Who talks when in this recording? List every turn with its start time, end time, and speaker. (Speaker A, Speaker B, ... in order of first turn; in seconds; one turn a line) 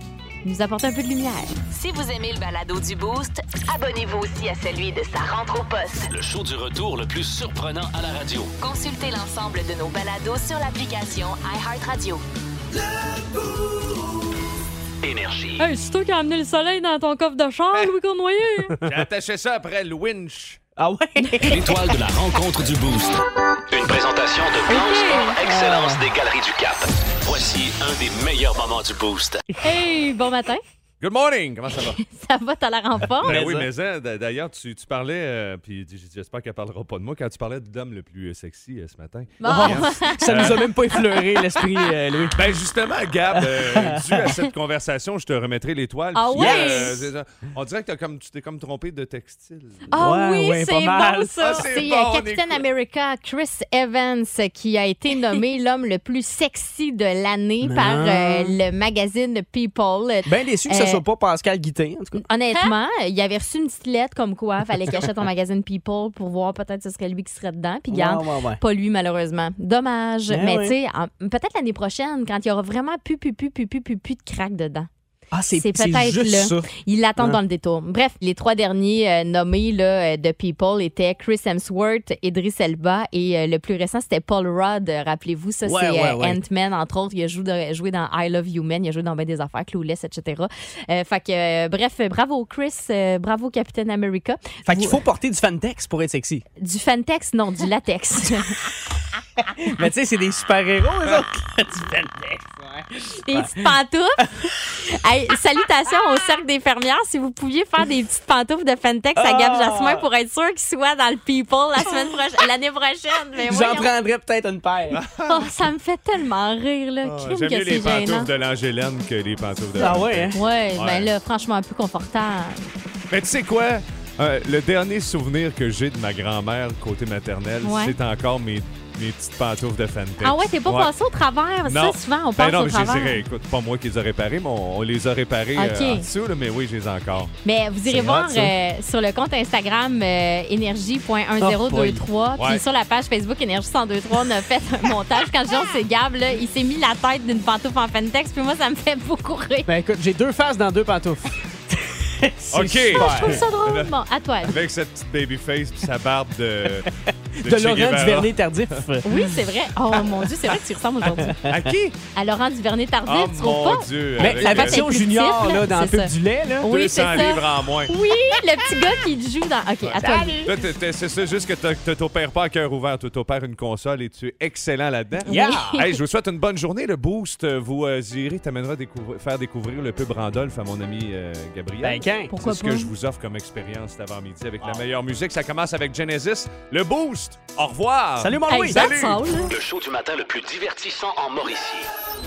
Speaker A: 0.4-1.5
Speaker B: 1.7-6.1
Speaker C: 6.1-8.5
Speaker B: 8.6-12.2
Speaker C: 15.0-15.7
Speaker A: 15.6-18.8
Speaker D: 18.8-20.6
Speaker E: 20.8-21.9
Speaker A: 21.2-21.5
Speaker C: 21.5-29.4
Speaker A: 24.7-25.4
Speaker E: 25.4-26.0
Speaker A: 29.6-30.6
Speaker D: 31.0-32.0
Speaker A: 31.9-33.4
Speaker D: 33.2-40.7
Speaker E: 33.2-33.7
Speaker A: 39.4-41.9
Speaker E: 39.4-42.4
Speaker D: 42.3-49.9
Speaker E: 43.5-43.9
Speaker A: 46.1-47.1
Speaker E: 46.4-46.9
Speaker A: 49.9-61.0
Speaker E: 49.9-51.6
Speaker D: 51.4-52.6
Speaker E: 57.6-58.6
Speaker E: 60.2-62.2
Speaker A: 62.2-74.9
Speaker E: 67.9-68.6
Speaker E: 70.3-70.7
Speaker E: 75.3-77.4
Speaker A: 75.5-95.0
Speaker E: 85.6-86.4
Speaker E: 94.7-96.4
Speaker A: 96.6-98.5
Speaker E: 99.5-103.7
Speaker A: 103.3-104.2
Speaker A: 104.8-113.9
Speaker E: 109.1-110.0
Speaker E: 113.4-115.0
Speaker D: 115.0-115.5
Speaker A: 115.2-118.3
Speaker D: 117.0-121.1
Speaker E: 119.8-120.4
Speaker A: 119.8-122.7
Speaker D: 123.1-130.9
Speaker A: 127.6-128.0
Speaker A: 130.2-133.2
Speaker D: 131.6-137.3
Speaker A: 135.5-136.1
Speaker A: 137.4-149.7
Speaker D: 137.8-138.5
Speaker E: 141.4-142.0
Speaker D: 142.4-142.6
Speaker E: 149.7-153.5
Speaker D: 152.5-153.9
Speaker A: 152.9-154.6
Speaker D: 154.4-156.9
Speaker E: 156.9-159.2
Speaker D: 157.4-158.8
Speaker A: 159.0-161.4
Speaker E: 160.1-161.6
Speaker D: 161.5-161.9
Speaker A: 162.1-170.5
Speaker D: 163.0-165.0
Speaker E: 164.2-166.7
Speaker D: 166.6-167.9
Speaker D: 169.8-189.3
Speaker E: 170.0-170.7
Speaker A: 175.2-176.0
Speaker E: 175.3-175.8
Speaker E: 181.8-182.3
Speaker A: 182.3-182.9
Speaker E: 188.2-188.8
Speaker A: 188.5-189.5
Speaker C: 189.5-191.9